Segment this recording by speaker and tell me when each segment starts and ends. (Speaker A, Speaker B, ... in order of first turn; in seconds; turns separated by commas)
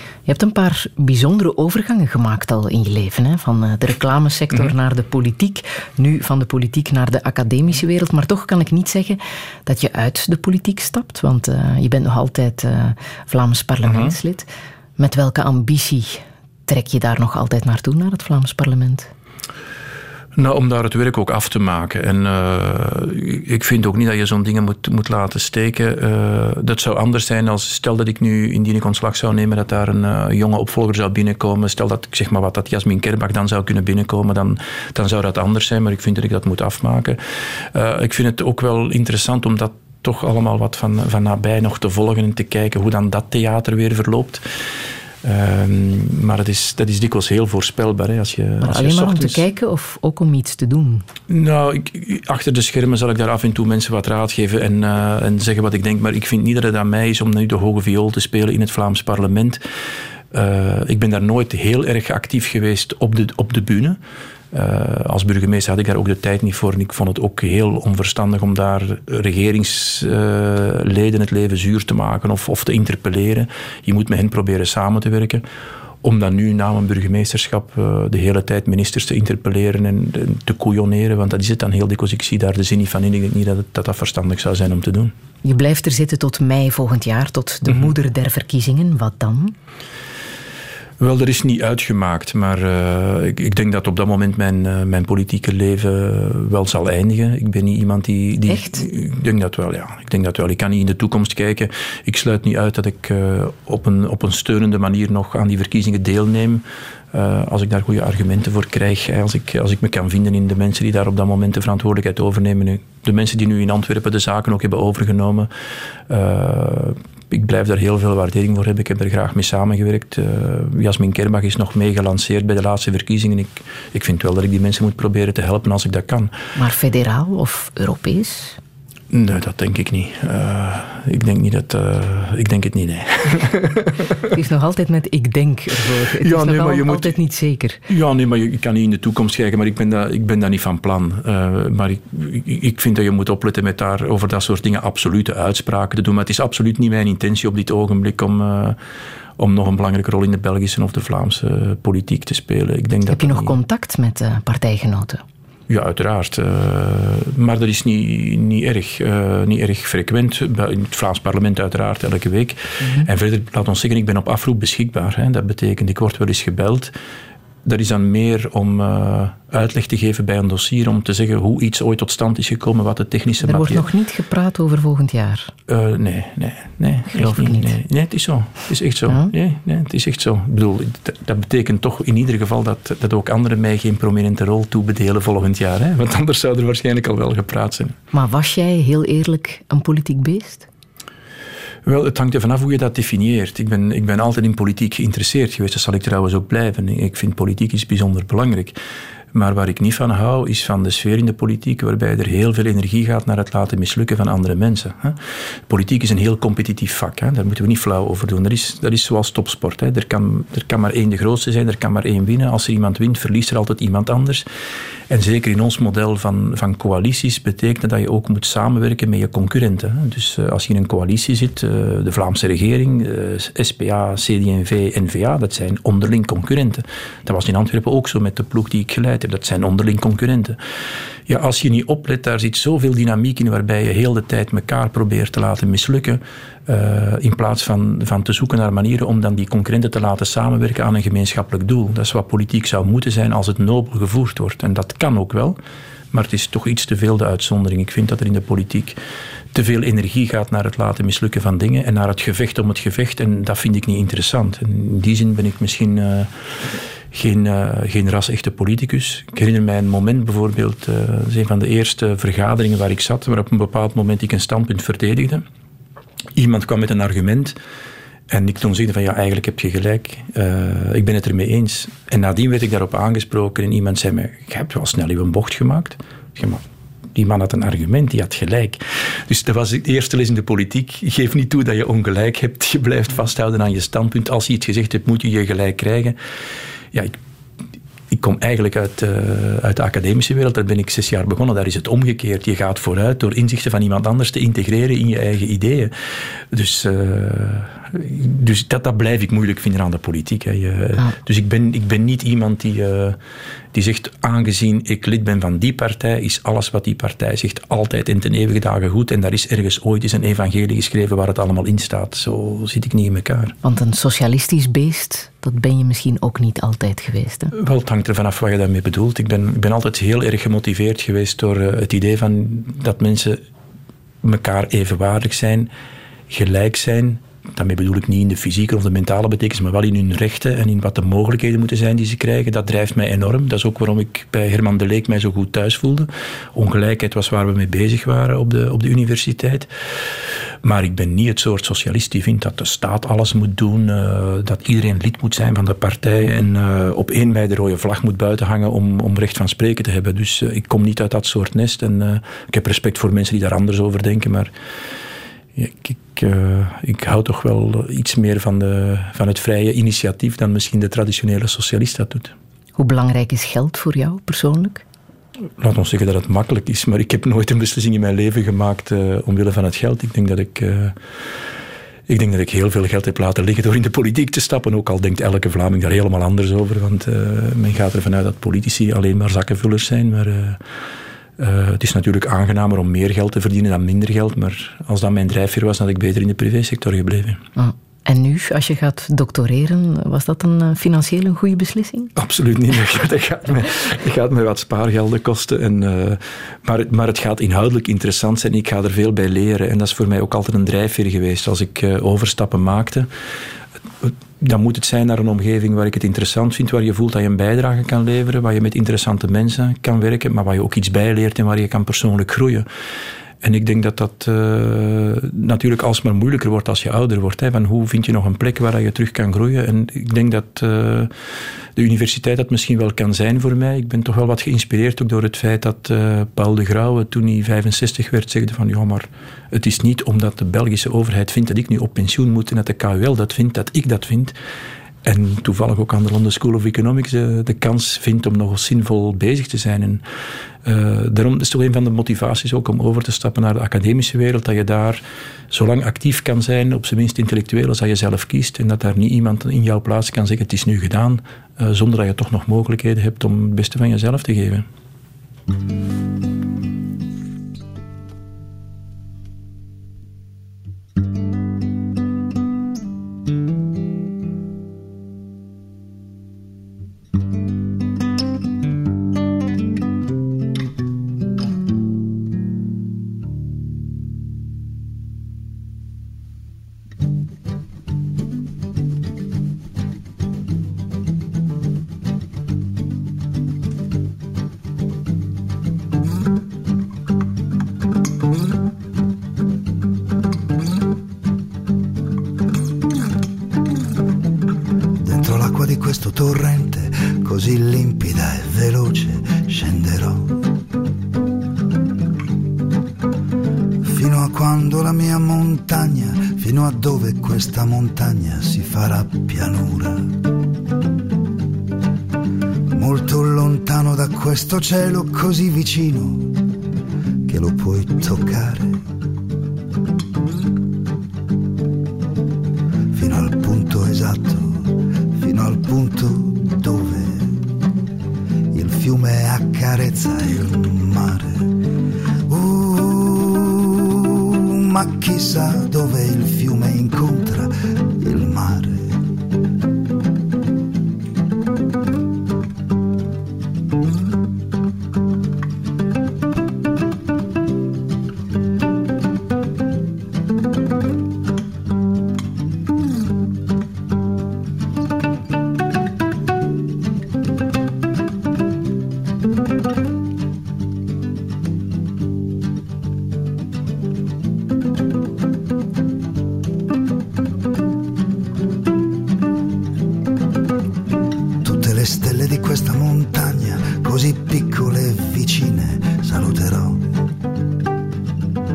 Speaker A: 0.3-14.5, Speaker B: 13.8-14.2, Speaker A: 15.0-19.1, Speaker B: 20.4-44.4, Speaker B: 45.2-49.4, Speaker A: 48.6-51.0, Speaker B: 51.3-59.6, Speaker B: 60.3-64.0, Speaker B: 64.5-75.5, Speaker B: 76.0-85.1, Speaker A: 85.4-89.5, Speaker B: 87.7-87.9, Speaker B: 91.0-115.5, Speaker A: 98.5-98.8, Speaker B: 116.1-126.3, Speaker A: 126.6-128.6, Speaker B: 129.1-134.2, Speaker A: 134.3-137.8, Speaker B: 136.2-137.2, Speaker B: 137.9-148.8, Speaker B: 149.4-153.6, Speaker A: 153.1-155.2, Speaker B: 155.7-166.9, Speaker A: 162.8-163.1, Speaker B: 167.6-173.9, Speaker A: 173.4-175.5, Speaker B: 175.7-187.9, Speaker A: 177.1-177.8, Speaker A: 188.1-190.7, Speaker B: 191.9-198.8, Speaker B: 199.3-214.5, Speaker B: 215.1-230.6, Speaker B: 231.3-245.6, Speaker B: 246.1-249.0, Speaker B: 249.5-256.3, Speaker B: 257.1-265.4, Speaker B: 266.4-267.6, Speaker B: 268.3-276.6, Speaker B: 277.1-286.2, Speaker B: 286.9-287.2, Speaker B: 288.1-295.9, Speaker B: 296.5-303.2, Speaker B: 303.7-313.6, Speaker A: 313.6-317.5, Speaker B: 317.5-323.4, Speaker B: 324.2-325.7, Speaker B: 326.3-339.7, Speaker B: 340.6-354.5, Speaker B: 355.6-362.3, Speaker A: 362.8-364.8, Speaker B: 365.6-371.0, Speaker B: 372.1-380.6, Speaker B: 381.4-387.4, Speaker A: 387.6-392.1, Speaker B: 392.2-403.1, Speaker B: 404.0-412.7, Speaker B: 413.4-421.1, Speaker B: 421.8-434.4, Speaker B: 435.1-440.0, Speaker B: 440.6-454.7, Speaker C: 495.0-500.4, Speaker C: 503.8-510.1, Speaker C: 512.7-516.3, Speaker C: 517.3-518.8, Speaker C: 522.9-527.4, Speaker C: 528.5-531.4, Speaker C: 532.3-539.0, Speaker C: 571.4-576.9